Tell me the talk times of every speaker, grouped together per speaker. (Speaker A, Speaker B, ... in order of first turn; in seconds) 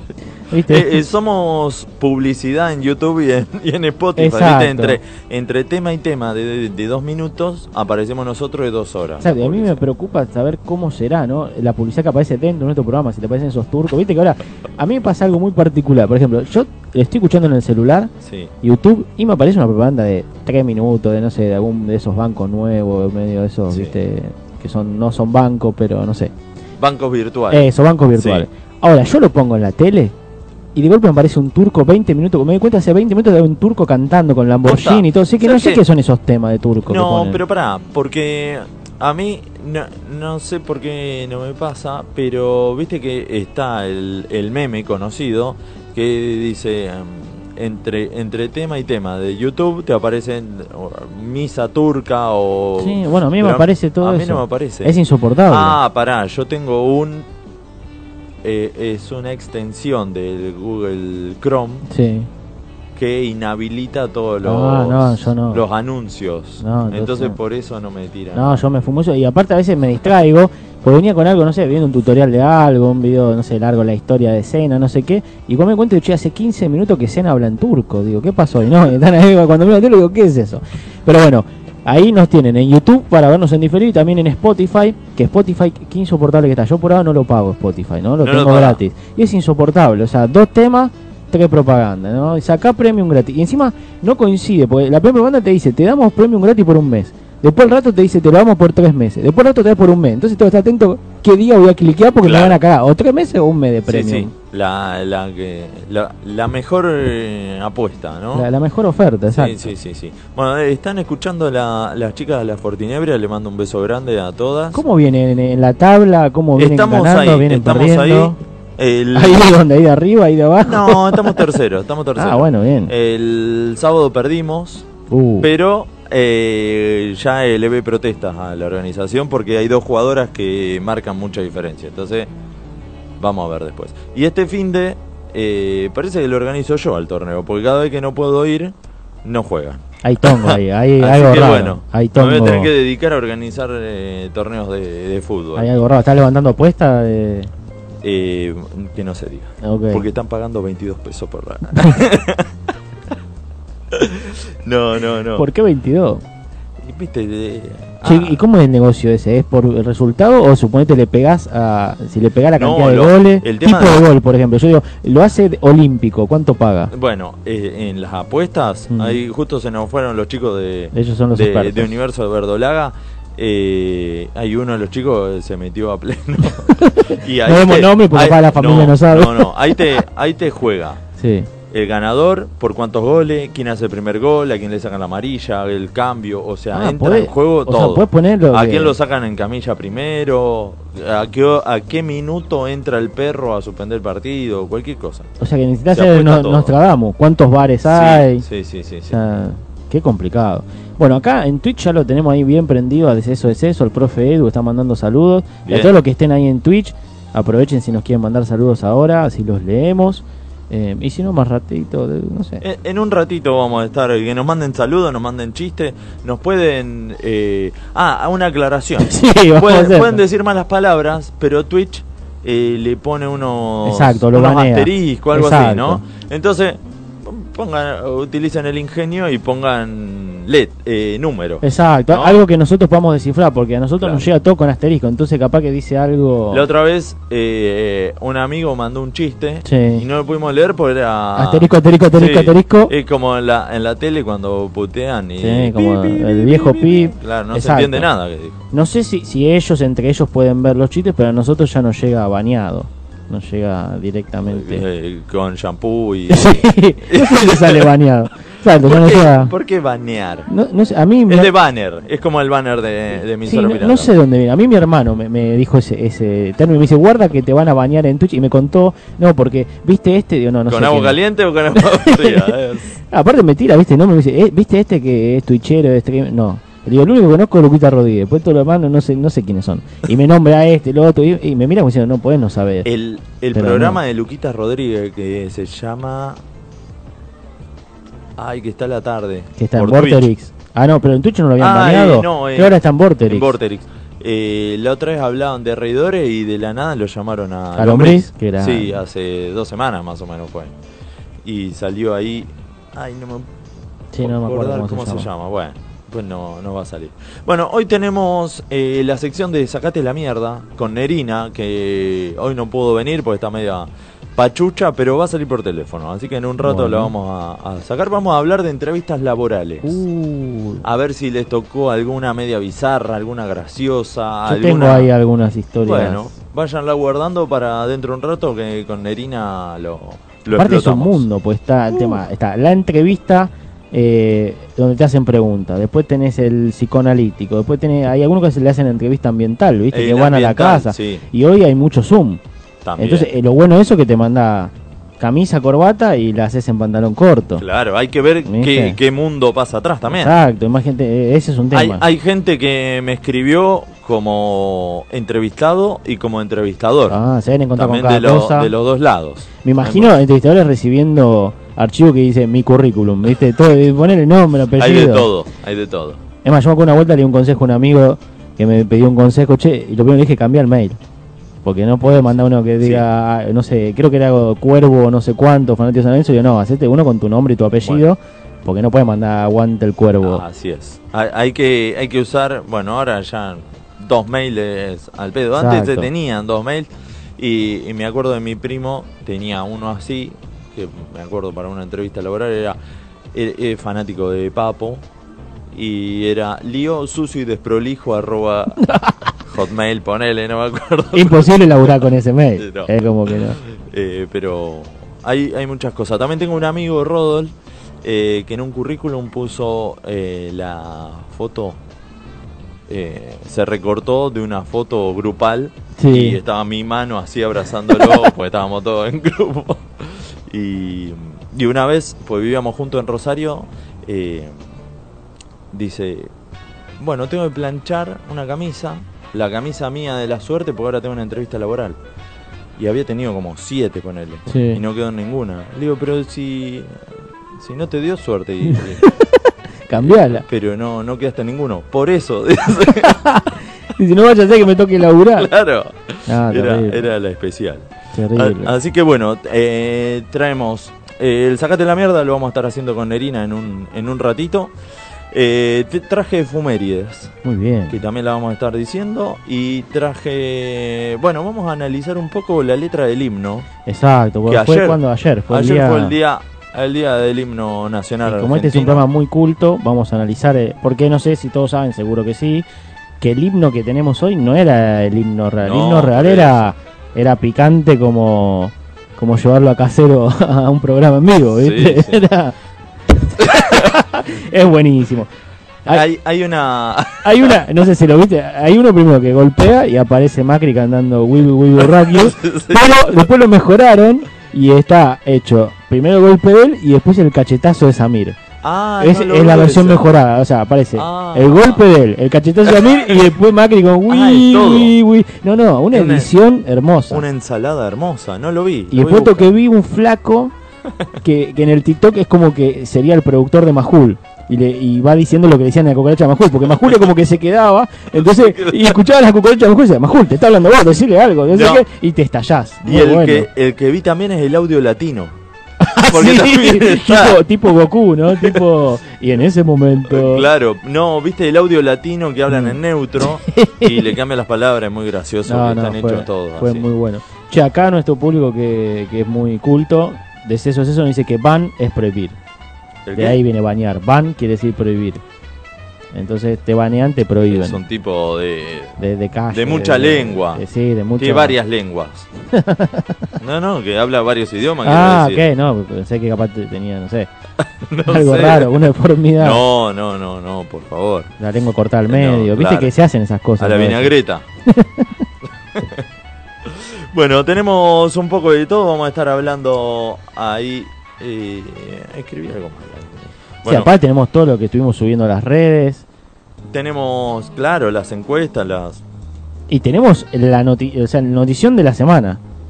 Speaker A: 0.5-1.1, 4.2-5.0, 9.2-18.1, 18.6-26.3, 27.5-30.1, 30.7-37.4, 52.8-55.8, 61.9-62.3, 64.4-65.6, 66.6-67.4, 68.3-104.3, 108.3-109.7, 114.7-118.4, 119.1-121.4, 122.2-122.9, 125.1-125.5, 140.0-142.7, 145.6-147.5, 149.6-150.0, 155.3-156.2, 158.0-166.9, 168.9-169.2, 170.9-171.9, 176.8-179.8, 181.2-181.5, 186.7-188.9, 195.4-198.4, 199.1-212.6, 219.0-220.2, 223.8-226.0, 231.6-236.7, 239.6-240.0, 241.3-242.9, 245.4-248.1, 248.7-254.8, 256.3-259.5, 260.5-261.5, 263.4-271.1, 271.8-272.5, 273.1-282.9, 283.5-284.0, 289.6-293.5, 297.8-299.0, 304.1-305.3, 316.6-317.1, 319.8-320.8, 324.4-326.3, 330.5-342.4, 343.0-347.6, 348.4-349.0, 350.0-352.0, 357.1-358.7, 359.6-365.3, 366.4-371.0, 371.6-380.4, 385.6-386.1, 398.9-399.1, 401.1-403.6, 416.0-416.4, 434.5-434.8, 438.7-440.4, 443.1-443.4, 443.9-445.5, 446.3-447.0, 448.1-448.7, 457.4-458.0, 463.9-466.1, 468.2-472.6, 473.2-482.5, 483.7-485.3, 487.2-498.4, 499.0-507.2, 508.9-510.5, 511.2-523.5, 525.8-530.5, 532.5-532.7, 533.5-533.9, 535.5-542.4, 543.1-545.2, 546.1-547.8, 549.0-551.5, 552.5-553.1, 554.8-557.3, 558.1-559.6, 561.4-564.1, 564.7-565.1, 573.6-576.0, 579.7-582.4
Speaker B: 0.7-9.8, 18.2-18.5, 23.7-24.0, 26.8-28.5, 34.6-35.8, 36.9-57.3, 58.4-61.8, 62.9-68.6, 88.2-88.8, 102.2-102.6, 103.9-108.5, 109.3-114.8, 116.5-119.5, 120.6-124.9, 125.4-132.3, 133.2-145.7, 148.0-152.5, 153.9-155.4, 156.8-158.4, 162.6-164.1, 166.9-181.0, 181.7-195.3, 195.9-196.7, 197.9-199.2, 205.7-205.9, 212.6-232.4, 236.5-248.6, 254.5-257.9, 258.8-260.5, 261.3-264.1, 270.7-273.0, 282.8-286.4, 288.4-290.3, 291.6-300.7, 301.4-303.5, 304.2-320.0, 320.8-325.1, 325.8-331.2, 331.9-332.2, 339.9-341.2, 342.8-343.3, 347.6-350.3, 351.7-357.2, 357.8-360.1, 364.8-366.2, 372.8-373.0, 380.2-392.8, 393.3-395.0, 395.7-398.8, 399.4-401.9, 402.6-402.9, 403.6-411.8, 412.9-424.6, 425.7-426.3, 427.0-432.0, 432.8-439.0, 440.0-443.2, 445.4-454.7, 455.3-457.3, 457.9-463.7, 464.4-469.0, 475.6-476.7, 481.6-482.2, 483.4-483.9, 485.9-487.6, 491.8-493.1, 498.6-500.1, 500.9-501.8, 502.6-503.2, 504.1-504.9, 505.9-506.3, 507.1-509.5, 516.8-517.1, 518.1-519.0, 521.5-521.8, 522.8-525.3, 526.1-527.4, 530.1-536.9, 543.0-543.4, 547.5-549.0, 549.5-550.6, 551.2-552.3, 553.4-555.4, 557.6-558.8, 559.4-561.3, 562.1-562.9, 563.6-564.4, 565.7-566.0, 566.6-573.9, 576.7-579.0